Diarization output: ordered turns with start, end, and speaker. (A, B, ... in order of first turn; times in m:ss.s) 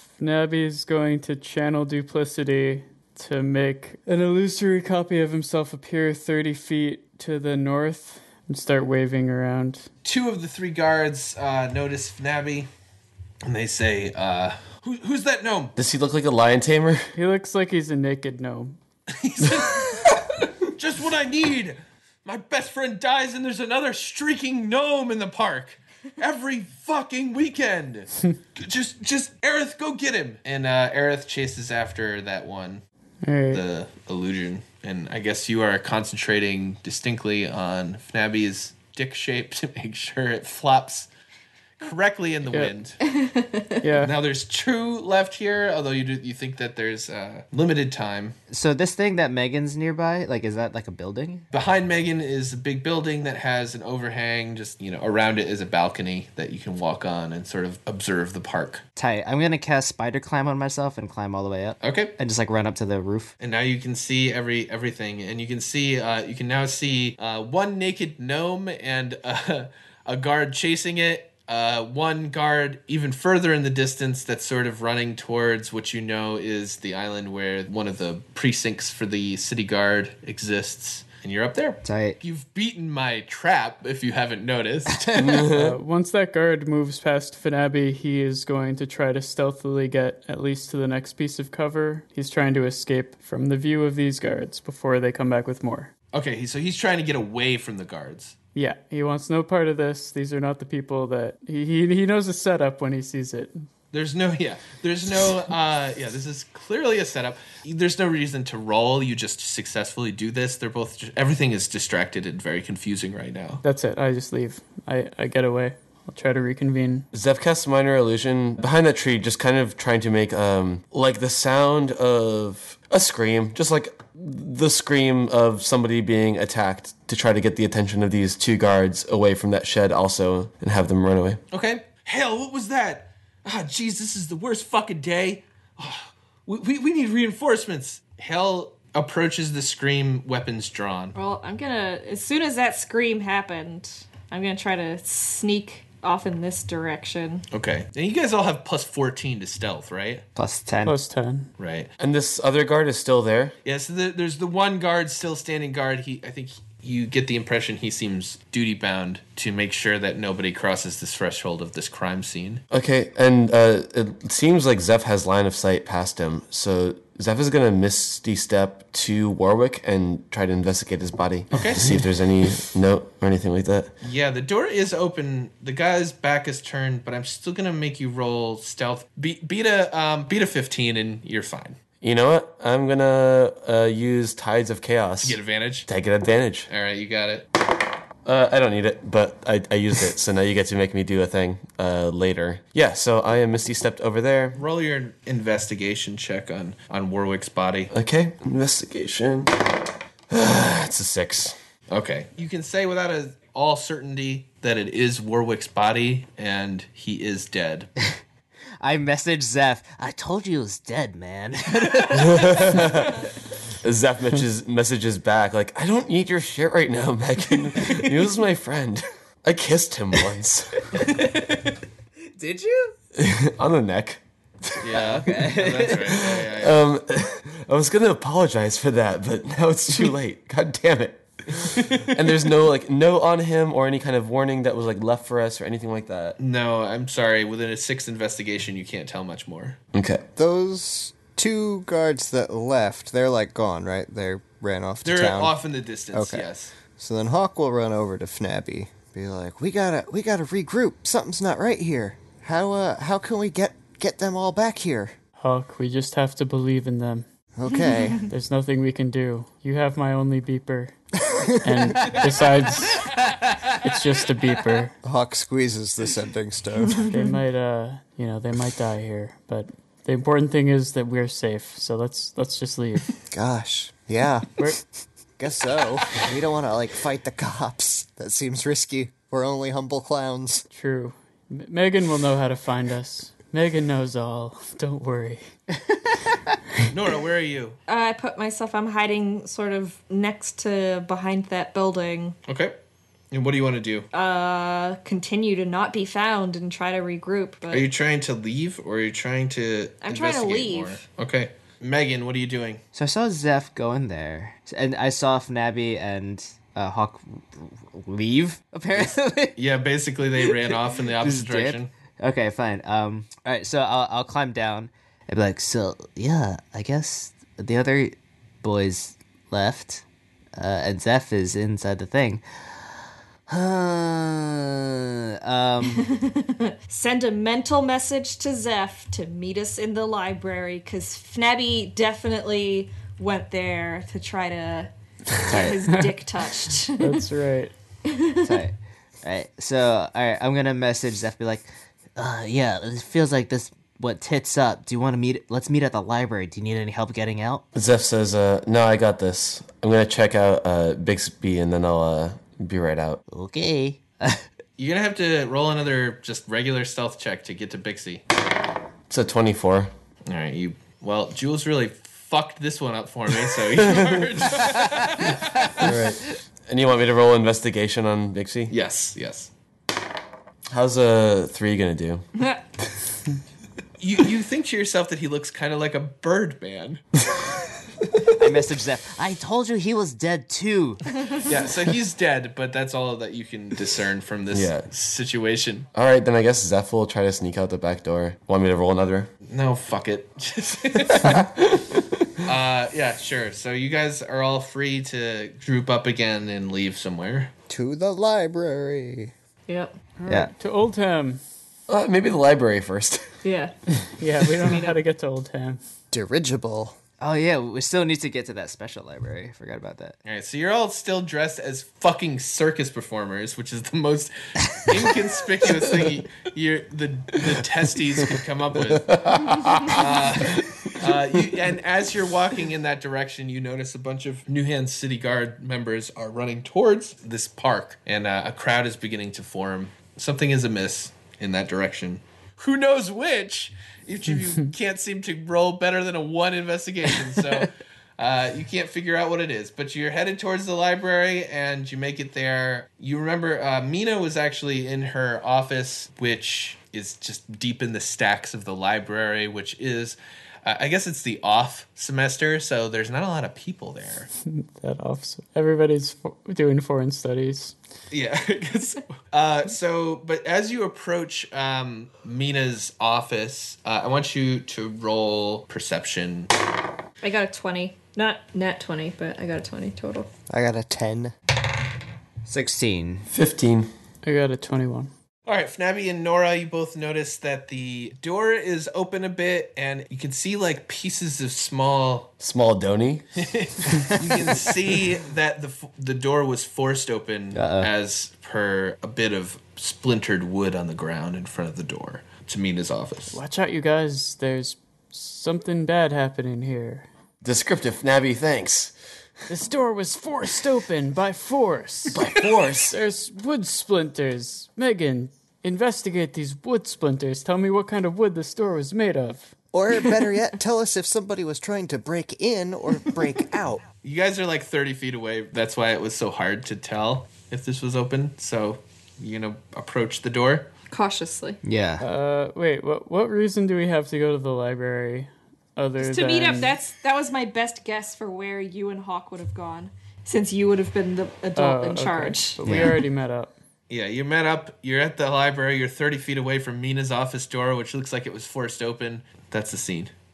0:00.2-0:09.9 A
0:10.0-0:12.7 B
0:13.4-0:15.7 B
0:15.8-0:17.1 C
0:17.2-0:18.8 A
0:19.1-0:32.8 B
0:33.2-0:33.6 A
0:33.5-0:41.1 B
0:41.8-0:43.0 B
0:43.1-0:43.9 D
0:43.8-0:44.2 A
0:44.0-0:48.4 B
0:48.5-0:51.5 E
0:51.5-0:58.8 B
0:59.0-1:03.3 E
1:01.8-1:02.1 B
1:03.4-1:25.3 B
1:21.8-1:22.2 E
1:25.2-1:25.8 C
1:25.5-1:35.9 A
1:36.1-1:38.4 B
1:38.6-1:43.6 A
1:43.9-1:53.6 B
1:53.6-1:57.1 A
1:57.1-2:11.4 C
2:11.5-2:21.1 B
2:21.2-2:27.4 D
2:27.5-2:30.2 B
2:30.4-2:30.9 E
2:30.8-2:31.5 A
2:31.6-2:31.9 B
2:32.0-2:33.6 C
2:33.6-2:42.6 B
2:42.7-2:53.9 C
2:51.5-2:52.1 B
2:54.0-3:01.8 B
3:02.0-3:06.7 C
3:05.2-3:05.9 B
3:06.7-3:07.5 B
3:08.2-3:14.6 C
3:14.6-3:17.9 B
3:17.9-3:19.6 C
3:20.3-3:21.6 C
3:21.9-3:27.9 B
3:28.8-3:32.8 E
3:32.1-3:33.3 C
3:33.8-3:40.9 C
3:40.9-3:41.8 E
3:42.3-3:43.0 E
3:43.2-3:45.2 C
3:44.8-3:46.8 B
3:44.9-3:46.3 E
3:46.2-3:56.4 C
3:51.6-3:52.2 B
3:56.4-3:59.8 B
3:59.9-4:00.2 C
4:00.4-4:05.6 F
4:05.0-4:06.7 B
4:06.1-4:15.2 F
4:15.4-4:17.3 A
4:17.6-4:18.2 F
4:17.7-4:18.3 D
4:18.3-4:20.9 A
4:21.2-4:22.1 F
4:21.6-4:23.1 A
4:23.8-4:25.0 A
4:25.0-4:27.1 F
4:27.0-4:27.3 D
4:27.1-4:33.1 A
4:33.3-4:34.6 F
4:35.4-4:40.6 F
4:40.7-4:45.4 A
4:46.9-4:47.8 B
4:47.9-4:52.4 D
4:52.5-4:52.8 B
4:53.3-4:54.1 B
4:54.1-4:57.9 D
4:57.7-5:02.8 B
5:00.0-5:01.0 D
5:02.9-5:09.6 E
5:09.6-5:11.9 B
5:11.2-5:20.0 E
5:20.6-5:22.4 E
5:23.5-5:26.1 E
5:26.0-5:37.3 D
5:35.5-5:35.8 E
5:37.0-5:37.7 A
5:38.0-5:38.6 D
5:38.4-5:47.6 E
5:47.7-5:53.2 C
5:53.3-5:54.4 E
5:54.8-5:58.2 B
5:59.1-5:59.9 C
6:00.3-6:05.9 B
6:05.8-6:08.7 C
6:05.8-6:06.2 F
6:08.7-6:09.5 B
6:10.7-6:12.2 C
6:12.4-6:12.6 D
6:14.0-6:17.0 B
6:18.4-6:21.1 E
6:21.4-6:25.9 B
6:24.5-6:24.9 C
6:25.9-6:29.3 C
6:29.5-6:31.4 B
6:31.2-6:32.4 C
6:32.4-6:37.5 B
6:37.7-6:39.3 F
6:39.7-6:39.9 D
6:40.2-6:41.4 A
6:41.9-6:43.3 C
6:43.4-6:43.7 D
6:44.2-6:45.8 A
6:46.1-6:47.0 F
6:47.2-6:50.2 E
6:50.3-6:59.3 B
6:59.1-7:00.0 C
6:59.8-7:34.3 B
7:34.5-7:37.8 A
7:38.1-7:46.5 B
7:47.2-7:50.3 D
7:50.5-7:51.3 F
7:52.4-7:53.3 E
7:53.3-7:53.9 C
7:54.2-7:55.1 A
7:55.5-8:02.3 B
8:02.4-8:03.3 C
8:03.4-8:13.4 B
8:07.6-8:07.9 E
8:13.3-8:17.1 A
8:17.4-8:19.0 C
8:19.5-8:29.6 A
8:22.1-8:23.0 C
8:29.7-8:33.8 F
8:34.0-8:40.7 B
8:40.9-8:41.6 D
8:41.6-8:42.0 E
8:42.0-8:46.8 A
8:46.0-8:52.6 D
8:51.6-8:53.6 A
8:52.6-8:53.0 E
8:53.9-9:00.1 B